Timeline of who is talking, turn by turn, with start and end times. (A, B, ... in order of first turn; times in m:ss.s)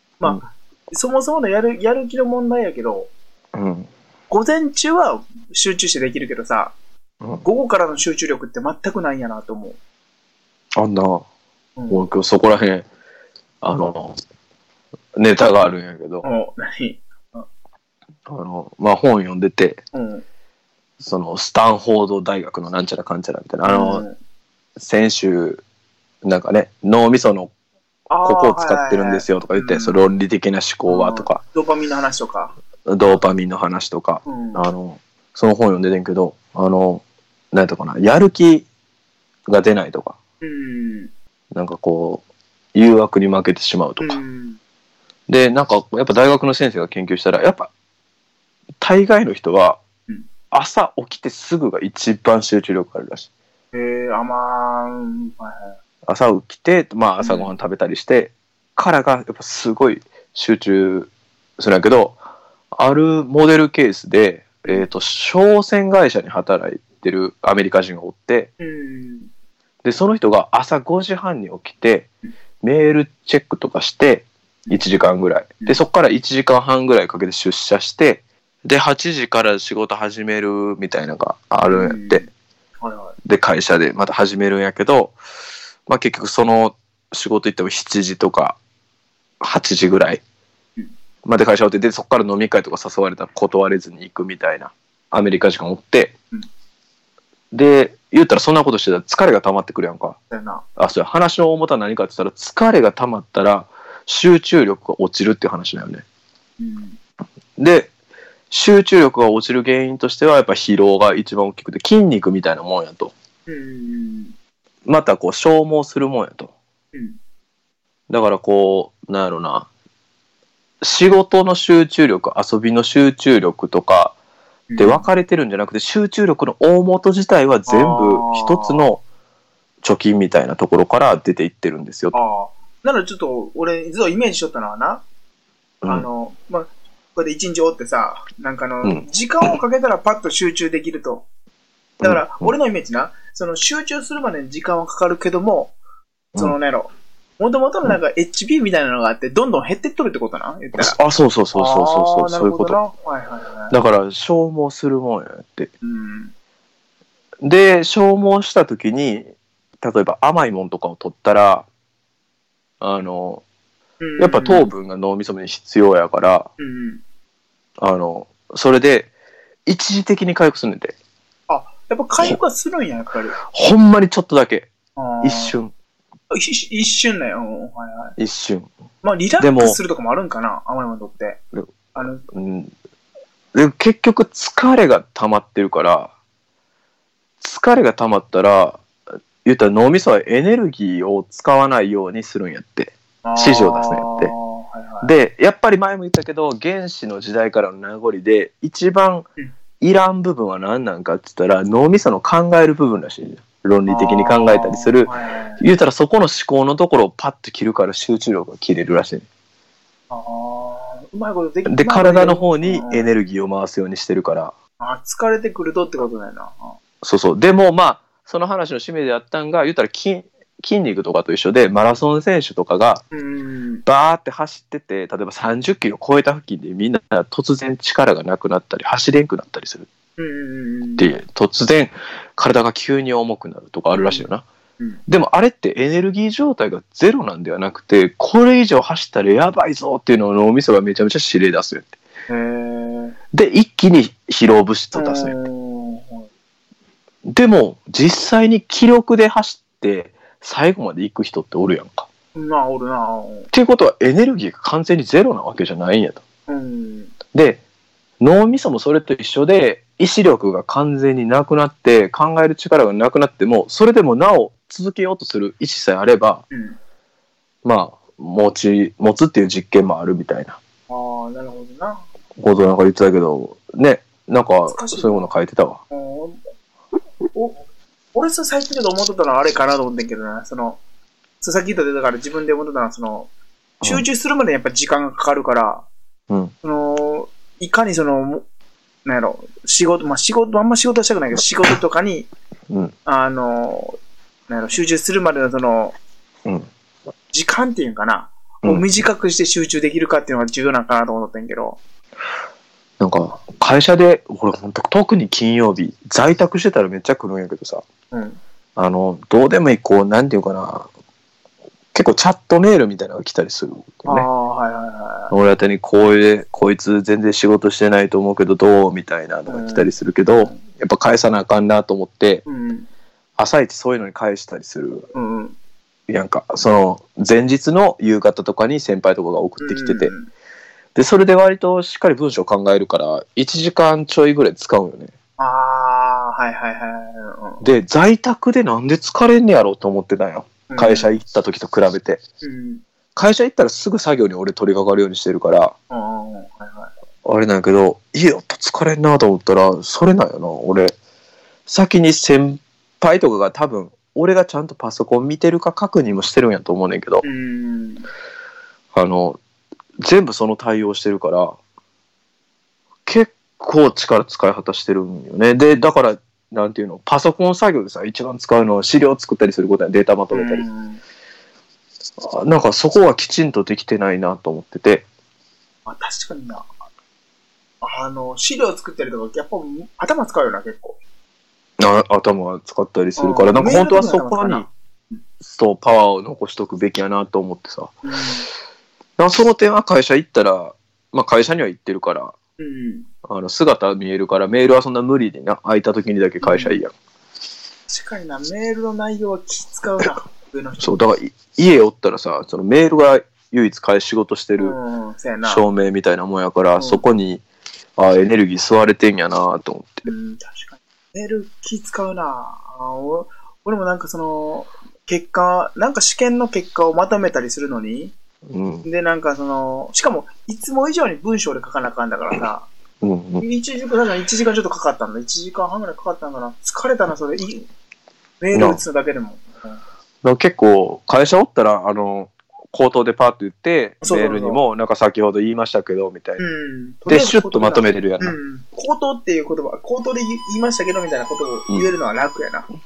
0:00.2-0:03.1 A
0:03.5-0:03.9 B
0:04.3-0:06.8 A
0:07.4-0:09.8 A
0:10.8-0:11.2 B
0:11.8-0:12.0 A
0:11.9-0:12.9 B
0:13.6-0:14.2 B
0:15.2-0:16.2 B
0:16.2-0:17.4 A
0:18.3-0:19.8 B
0:19.9-0:20.2 A
0:21.0-0:24.0 B
0:23.6-0:24.1 A
0:24.8-0:25.6 B
0:26.2-0:27.5 B
0:28.1-0:30.1 A
0:28.2-0:31.4 B
0:30.9-0:32.5 A
0:32.9-0:38.7 B
0:34.2-0:34.6 A
0:39.5-0:40.2 B
0:40.4-0:41.1 A
0:41.5-0:42.2 B
0:42.7-0:44.2 B
0:44.0-0:44.6 A
0:45.3-0:47.7 B
0:48.8-0:49.8 B
0:50.5-0:53.3 B
0:53.7-0:55.8 A
0:56.0-1:02.2 B
0:57.2-0:57.5 A
1:02.7-1:08.5 B
1:08.6-1:09.3 A
1:09.8-1:12.1 B
1:12.6-1:22.2 B
1:21.6-1:22.3 A
1:22.8-1:23.2 A
1:23.2-1:25.2 B
1:25.9-1:28.6 B
1:29.4-1:30.2 B
1:31.2-1:36.1 B
1:37.5-1:40.2 B
1:40.3-1:40.6 A
1:40.8-1:46.0 B
1:46.6-1:47.0 A
1:47.6-1:47.9 B
1:48.5-1:53.1 B
1:53.5-1:54.3 A
1:54.8-1:56.5 B
1:58.1-1:59.7 B
2:00.8-2:04.2 B
2:04.7-2:05.1 A
2:04.8-2:09.0 B
2:07.7-2:08.9 A
2:09.8-2:12.1 B
2:12.1-2:15.0 A
2:15.8-2:21.2 A
2:22.0-2:22.5 B
2:22.0-2:25.8 A
2:26.4-2:31.0 A
2:30.8-2:32.8 B
2:31.5-2:33.7 A
2:33.7-2:35.7 B
2:35.8-2:36.3 A
2:37.4-2:41.7 B
2:42.8-2:43.4 B
2:44.0-2:44.7 A
2:44.2-2:46.5 B
2:46.6-2:47.0 A
2:47.8-2:49.1 B
2:49.6-2:51.0 B
2:51.5-2:53.4 A
2:53.5-2:54.7 B
2:55.0-2:55.6 A
2:55.2-2:55.7 B
2:56.3-2:58.2 A
2:58.2-2:58.7 B
2:59.0-3:01.4 A
2:59.4-2:59.8 B
3:01.9-3:02.2 A
3:02.3-3:02.7 B
3:03.5-3:06.1 B
3:07.4-3:08.8 B
3:09.4-3:14.3 B
3:13.2-3:15.1 A
3:15.0-3:19.3 B
3:19.8-3:29.3 B
3:23.9-3:25.6 A
3:30.1-3:33.1 A
3:31.6-3:34.5 B
3:34.8-3:36.8 A
3:37.0-3:43.0 B
3:43.1-3:43.8 A
3:43.8-3:49.9 B
3:50.2-3:51.1 A
3:51.0-3:54.4 B
3:53.9-3:54.3 A
3:55.1-4:02.0 B
4:02.3-4:03.2 A
4:03.3-4:05.4 B
4:04.9-4:06.3 A
4:07.2-4:12.1 B
4:12.3-4:13.5 A
4:13.5-4:16.2 B
4:16.5-4:17.1 A
4:17.3-4:17.6 B
4:18.2-4:26.4 B
4:26.5-4:26.8 A
4:27.6-4:30.6 B
4:30.9-4:32.0 A
4:32.4-4:35.8 B
4:34.7-4:35.3 A
4:35.9-4:36.4 A
4:37.3-4:40.8 A
4:41.4-4:43.3 A
4:43.8-4:45.9 A
4:46.6-4:48.4 A
4:49.0-4:52.3 A
4:53.0-4:54.0 A
4:54.5-4:56.0 A
4:57.3-5:01.8 A
5:03.0-5:07.8 B
5:08.1-5:08.4 A
5:08.8-5:10.9 B
5:11.9-5:14.3 B
5:14.0-5:15.3 A
5:15.3-5:22.4 B
5:19.5-5:20.6 A
5:22.4-5:22.9 A
5:23.4-5:25.1 B
5:25.1-5:25.6 A
5:26.1-5:30.1 B
5:29.6-5:30.3 A
5:30.9-5:35.1 B
5:35.4-5:37.6 A
5:37.6-5:42.2 B
5:40.7-5:41.1 A
5:42.4-5:42.8 A
5:43.2-5:45.7 B
5:45.9-5:46.9 A
5:47.2-5:50.9 B
5:51.7-5:57.2 B
5:57.2-5:58.0 A
5:58.9-5:59.4 B
6:00.0-6:01.6 B
6:03.0-6:10.6 B
6:10.3-6:11.0 A
6:12.2-6:15.0 B
6:15.8-6:16.6 A
6:17.8-6:21.0 A
6:21.8-6:24.7 B
6:23.2-6:25.2 A
6:25.4-6:27.9 B
6:28.0-6:28.5 A
6:29.2-6:32.3 B
6:32.6-6:33.1 A
6:33.3-6:36.9 B
6:36.4-6:36.8 A
6:37.9-6:41.0 A
6:40.8-6:44.8 B
6:44.6-6:45.6 A
6:45.4-6:47.4 B
6:46.8-6:47.0 A
6:48.0-6:50.1 B
6:50.0-6:58.2 A
6:58.5-6:58.8 B
6:58.8-7:02.7 A
7:03.0-7:03.4 B
7:03.4-7:07.7 A
7:08.4-7:09.8 A
7:08.5-7:08.8 B
7:10.2-7:16.4 B
7:14.0-7:14.6 A
7:16.4-7:22.6 A
7:17.0-7:18.4 B